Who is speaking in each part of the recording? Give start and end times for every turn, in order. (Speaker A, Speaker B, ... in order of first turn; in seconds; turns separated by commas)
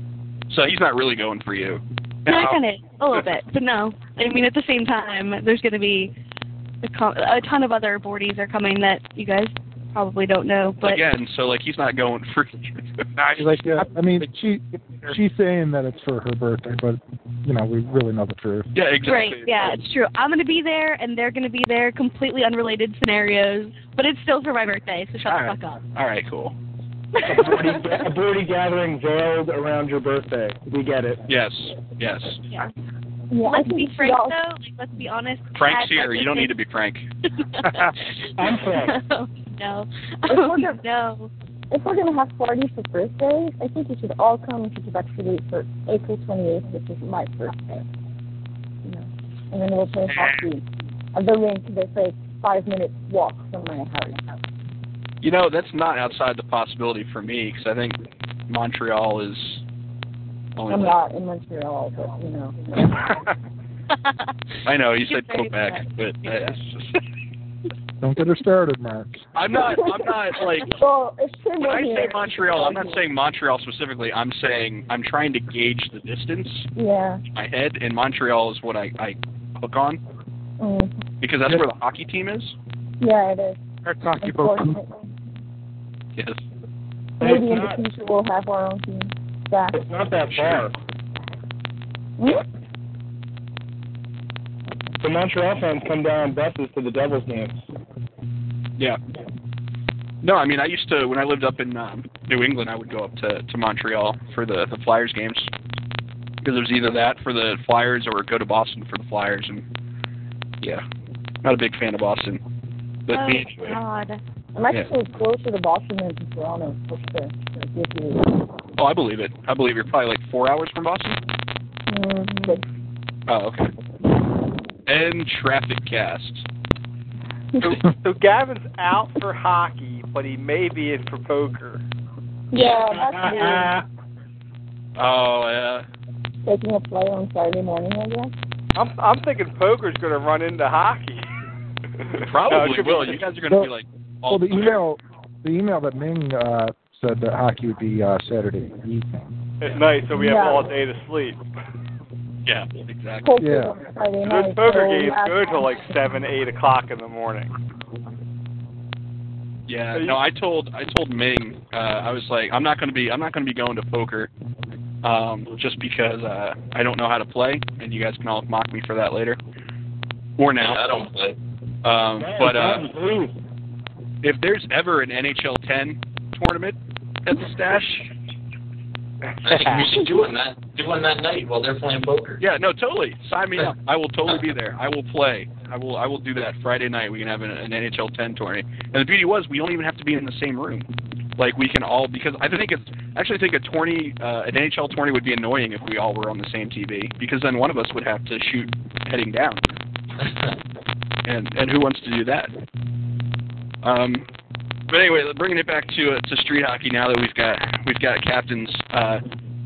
Speaker A: 0.5-2.5, Speaker B: 2.3-6.1, Speaker C: 2.3-2.6, Speaker B: 6.8-11.0, Speaker A: 10.8-13.1, Speaker C: 13.2-14.3, Speaker D: 13.4-18.7, Speaker C: 14.9-15.2, Speaker A: 18.7-19.8, Speaker B: 19.0-25.8, Speaker A: 25.2-26.6, Speaker B: 27.1-27.8, Speaker E: 27.2-31.2, Speaker A: 31.3-32.4, Speaker F: 33.3-34.4, Speaker B: 33.4-36.5, Speaker A: 35.5-37.0, Speaker B: 37.4-41.3, Speaker C: 37.6-37.9, Speaker E: 38.4-39.0, Speaker F: 40.3-40.8, Speaker F: 41.7-47.9, Speaker F: 48.9-54.4, Speaker A: 55.2-58.0, Speaker A: 58.5-59.6, Speaker A: 60.6-61.0, Speaker F: 60.7-63.0, Speaker A: 64.7-67.0, Speaker B: 65.0-66.4, Speaker D: 68.0-69.2, Speaker A: 69.3-70.8, Speaker F: 70.7-73.0, Speaker A: 71.6-76.7, Speaker F: 76.8-77.2, Speaker A: 77.3-80.0, Speaker F: 80.6-80.9, Speaker A: 81.2-82.5, Speaker F: 83.0-83.6, Speaker C: 83.8-84.7, Speaker F: 84.2-85.1, Speaker F: 87.2-89.8, Speaker E: 87.2-87.8, Speaker E: 89.7-90.7, Speaker A: 90.3-90.7, Speaker F: 92.2-92.5, Speaker E: 95.0-97.6, Speaker A: 100.2-105.5, Speaker A: 106.4-109.7, Speaker A: 111.4-112.4, Speaker A: 113.1-113.8, Speaker B: 113.1-114.2, Speaker F: 114.5-118.5, Speaker A: 118.8-121.2, Speaker F: 121.9-122.6, Speaker A: 123.3-123.7, Speaker A: 124.9-126.5, Speaker G: 127.6-131.8, Speaker F: 132.5-133.8, Speaker E: 133.2-133.7, Speaker A: 135.0-135.9, Speaker F: 136.4-138.3, Speaker G: 138.8-141.2, Speaker G: 142.0-143.2, Speaker A: 142.2-144.8, Speaker D: 144.3-149.3, Speaker G: 149.6-151.4, Speaker F: 150.2-150.7, Speaker A: 152.4-153.3, Speaker F: 153.2-155.8, Speaker D: 153.4-153.8, Speaker G: 154.2-157.5, Speaker A: 159.7-164.3, Speaker G: 159.9-160.2, Speaker A: 165.0-169.4, Speaker A: 170.4-170.8, Speaker H: 170.6-171.4, Speaker A: 171.8-172.8, Speaker E: 172.2-173.3, Speaker A: 174.2-178.1, Speaker H: 179.4-182.4, Speaker A: 182.4-199.6, Speaker A: 201.3-202.5, Speaker A: 203.8-204.3, Speaker A: 204.9-209.2